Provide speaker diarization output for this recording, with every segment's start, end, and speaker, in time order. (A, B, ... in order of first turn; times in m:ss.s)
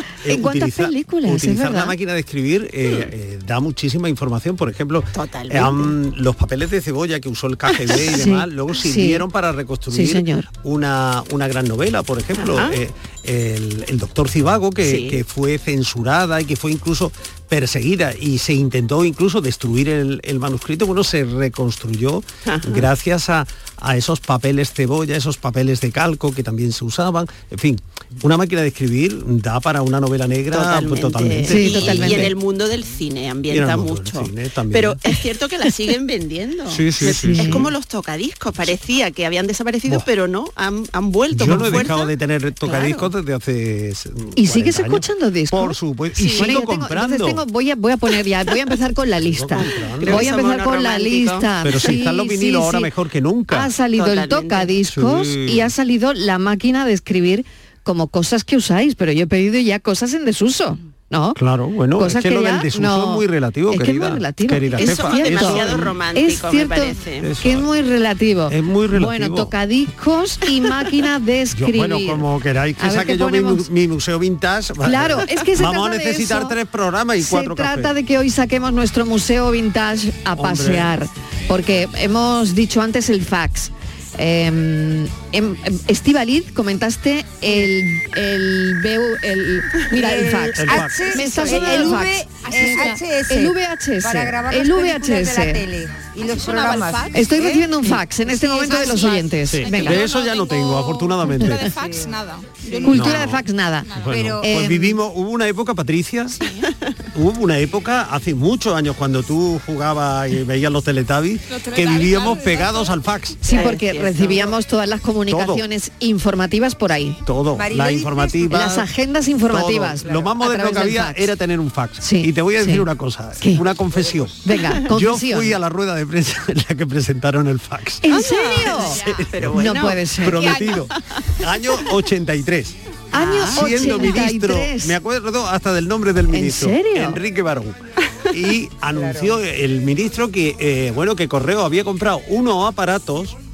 0:00.2-0:32.3 A
0:00.3-0:01.9 B
0:05.1-0:05.9 C
0:08.2-0:09.2 B
0:09.9-0:10.5 B
0:12.4-0:12.8 C
0:14.8-0:15.2 C
0:22.4-0:22.9 C
0:30.5-0:42.1 C
0:31.4-0:32.3 B
0:33.5-0:35.0 A
0:36.7-0:37.7 A
0:37.0-0:37.6 B
0:41.3-0:47.4 A
0:42.6-0:43.1 C
0:44.4-0:52.9 B
0:49.2-0:50.4 A
0:50.0-0:51.9 C
0:51.6-0:53.7 A
0:53.5-1:01.4 B
0:53.9-0:54.7 C
0:54.9-0:55.7 A
1:01.4-1:05.9 A
1:02.0-1:12.2 B
1:04.8-1:07.3 C
1:07.2-1:07.7 A
1:08.5-1:09.5 A
1:11.5-1:17.9 A
1:12.8-1:13.6 B
1:14.8-1:16.5 B
1:17.2-1:35.6 B
1:20.4-1:20.9 A
1:29.9-1:37.7 D
1:30.6-1:32.0 A
1:32.4-1:33.0 E
1:36.2-1:37.6 E
1:37.1-1:40.0 B
1:38.2-1:44.1 E
1:39.5-1:41.7 A
1:41.6-1:42.1 D
1:42.8-1:43.9 B
1:42.9-1:46.3 A
1:44.1-1:44.7 D
1:44.4-1:45.0 B
1:46.4-1:46.6 E
1:47.1-1:53.4 A
1:51.5-1:53.0 E
1:53.4-1:57.2 B
1:53.4-1:54.5 C
1:55.3-1:55.6 A
1:57.2-1:58.9 A
1:57.5-1:58.5 D
1:58.5-2:01.3 B
1:59.5-2:08.2 A
2:02.0-2:03.6 B
2:04.4-2:05.6 B
2:08.0-2:09.0 B
2:08.1-2:10.0 C
2:08.8-2:09.3 E
2:09.0-2:23.4 A
2:09.5-2:10.5 B
2:10.3-2:10.8 E
2:13.1-2:14.9 B
2:13.2-2:13.8 C
2:16.3-2:17.2 B
2:19.0-2:19.3 D